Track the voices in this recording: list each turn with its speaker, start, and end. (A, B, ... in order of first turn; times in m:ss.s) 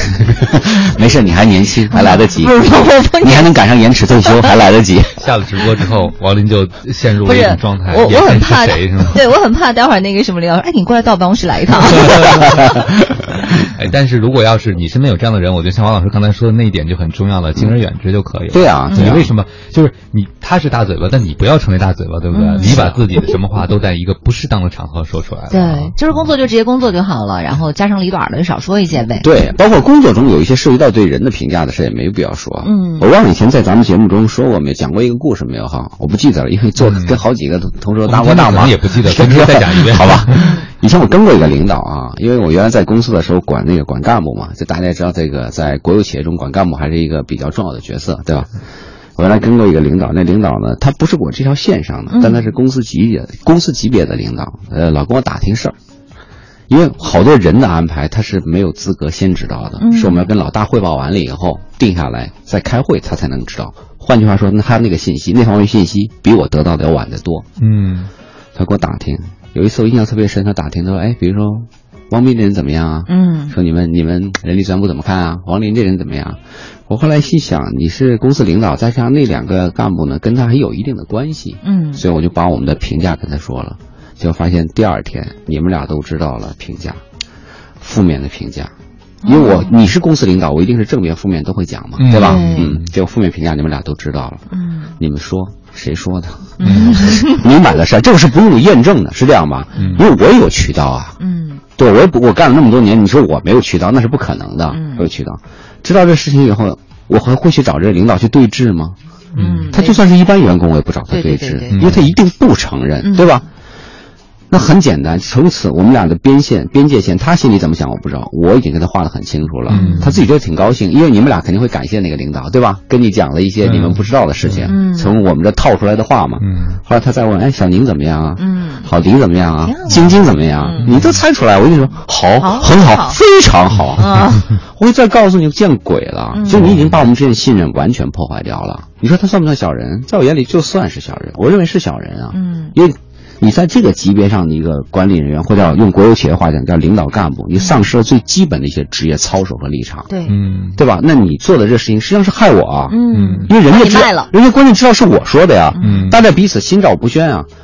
0:00.3-0:05.2 A
0:01.9-0:03.6 B
0:04.2-0:04.5 B
0:05.2-0:09.2 C
0:07.2-0:12.7 B
0:12.3-0:12.9 A
0:13.6-0:26.0 C
0:18.5-0:19.3 A
0:18.9-0:19.2 B
0:22.3-0:22.8 B
0:22.6-0:23.0 A
0:25.5-0:29.3 B
0:29.2-0:48.5 A
0:32.6-0:33.1 B
0:36.8-0:37.2 C
0:38.1-0:40.5 C
0:40.3-0:40.6 B
0:49.2-0:55.7 A
0:52.1-0:52.5 B
0:56.7-1:07.4 A
0:59.8-1:00.3 B
1:07.6-1:08.1 C
1:08.6-1:27.0 A
1:13.1-1:13.6 B
1:21.6-1:22.0 B
1:27.8-1:28.7 A
1:29.2-1:29.7 B
1:29.2-1:34.4 A
1:32.0-1:32.9 C
1:32.2-1:32.7 B
1:34.5-1:34.9 B
1:35.0-1:41.2 A
1:36.6-1:37.4 B
1:36.6-1:37.1 C
1:39.8-1:40.0 C
1:39.8-1:40.0 B
1:41.2-1:41.6 B
1:41.8-1:49.0 A
1:44.7-1:45.1 B
1:49.3-1:49.7 C
1:49.3-1:50.0 B
1:49.7-1:53.4 A
1:51.1-1:52.0 B
1:51.7-1:52.1 C
1:53.0-1:53.4 B
1:54.5-2:30.1 A
1:59.7-2:00.2 C
1:59.7-2:00.1 B
2:03.6-2:04.7 C
2:04.6-2:05.1 B
2:06.4-2:06.8 C
2:08.4-2:08.9 B
2:09.6-2:10.9 B
2:10.8-2:11.2 C
2:12.4-2:13.2 B
2:14.0-2:14.5 B
2:16.3-2:16.7 B
2:16.5-2:17.0 C
2:22.3-2:22.7 B
2:27.6-2:27.8 B
2:30.1-2:30.4 B
2:30.3-2:30.8 C
2:30.8-2:37.5 A
2:32.9-2:34.3 B
2:33.1-2:33.5 C
2:35.7-2:36.1 B
2:35.8-2:36.2 C